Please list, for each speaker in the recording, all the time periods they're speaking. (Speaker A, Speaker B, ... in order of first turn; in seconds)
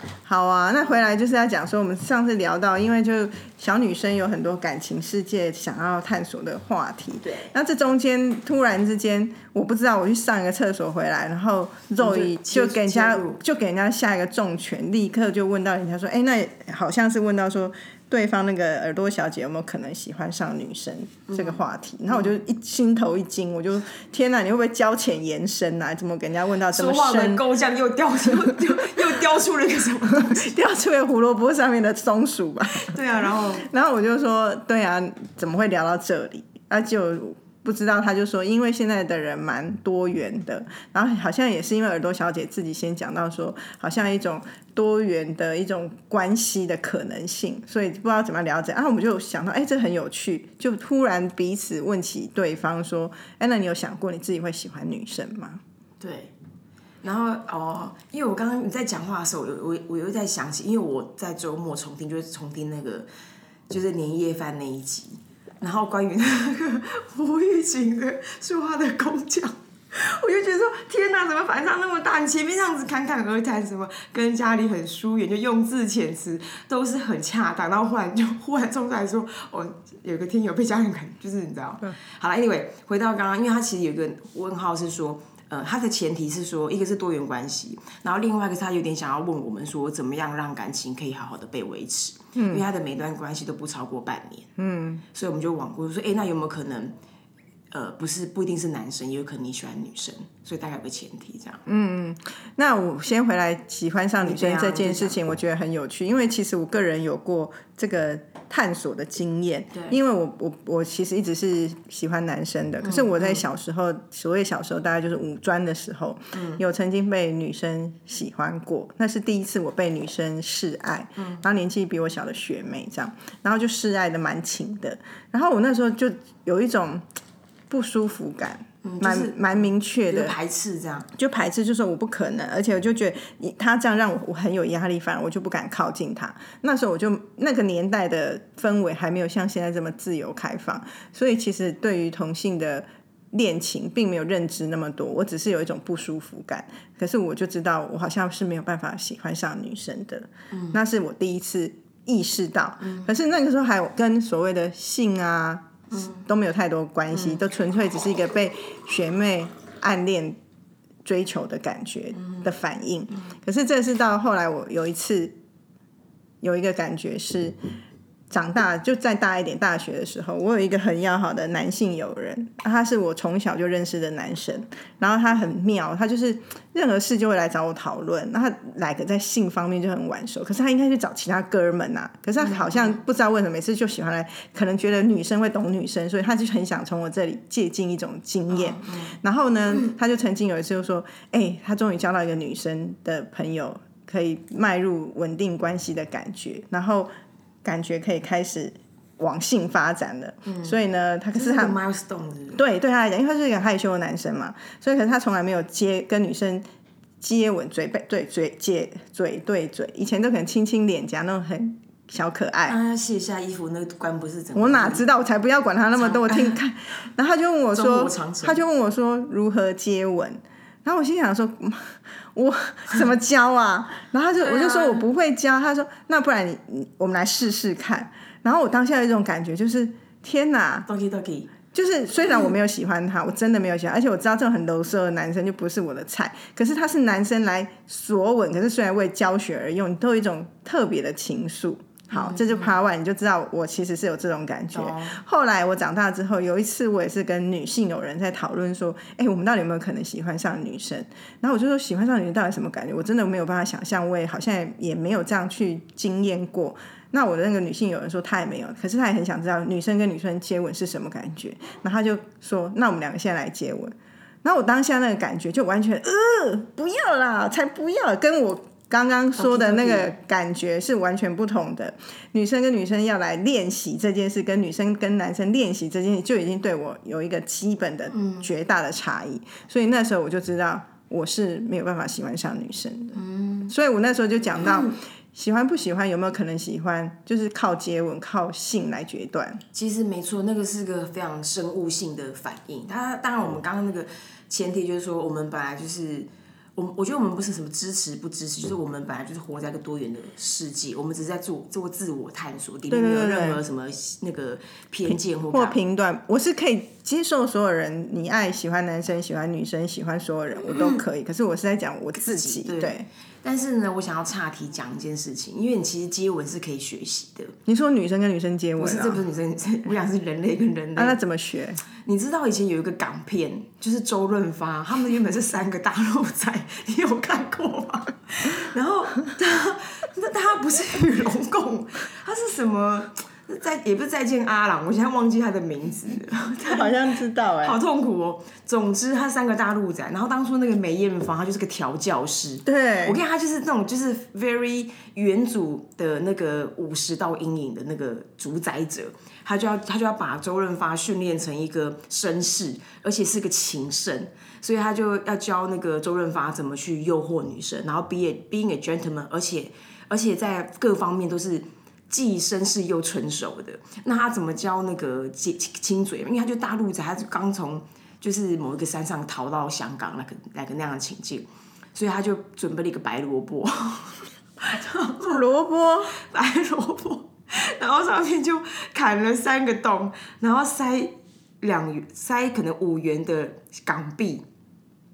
Speaker A: 0.3-27.4, 30.1-33.0, 33.6-55.6, 92.4-92.6, 94.6-95.0, 101.7-127.1, 127.7-130.4, 131.2-160.4, 161.1-165.4, 166.4-167.6, 168.3-197.1, 197.6-201.8, 202.6-206.6, 207.2-212.8, 214.6-230.9, 231.7-283.2, 283.7-289.6, 302.9-303.6, 305.1-313.1, 317.7-319.2, 321.0-321.8, 336.7-337.8, 342.7-343.2, 375.3-376.1
Speaker B: 7.2-7.5, 12.0-13.4, 21.3-22.3, 26.7-30.6, 32.7-33.7, 56.0-56.3, 57.0-63.1, 63.7-94.5, 95.1-97.0, 97.7-101.6, 104.2-105.2, 112.8-113.4, 116.3-116.6, 121.2-121.4, 128.8-131.1, 150.5-150.8, 152.8-153.1, 155.9-156.3, 157.1-157.4, 162.2-162.5, 182.4-182.9, 188.5-189.2, 200.5-200.8, 201.3-202.6, 212.7-215.1, 216.0-216.6, 217.7-218.6, 224.4-225.1, 230.9-231.5, 242.1-242.7, 244.7-245.2, 269.4-270.1, 278.1-278.5, 283.1-283.8, 284.6-285.0, 289.7-305.8, 310.7-311.0, 312.1-317.6, 318.8-321.2, 322.0-337.0, 337.6-375.4, 376.2-384.4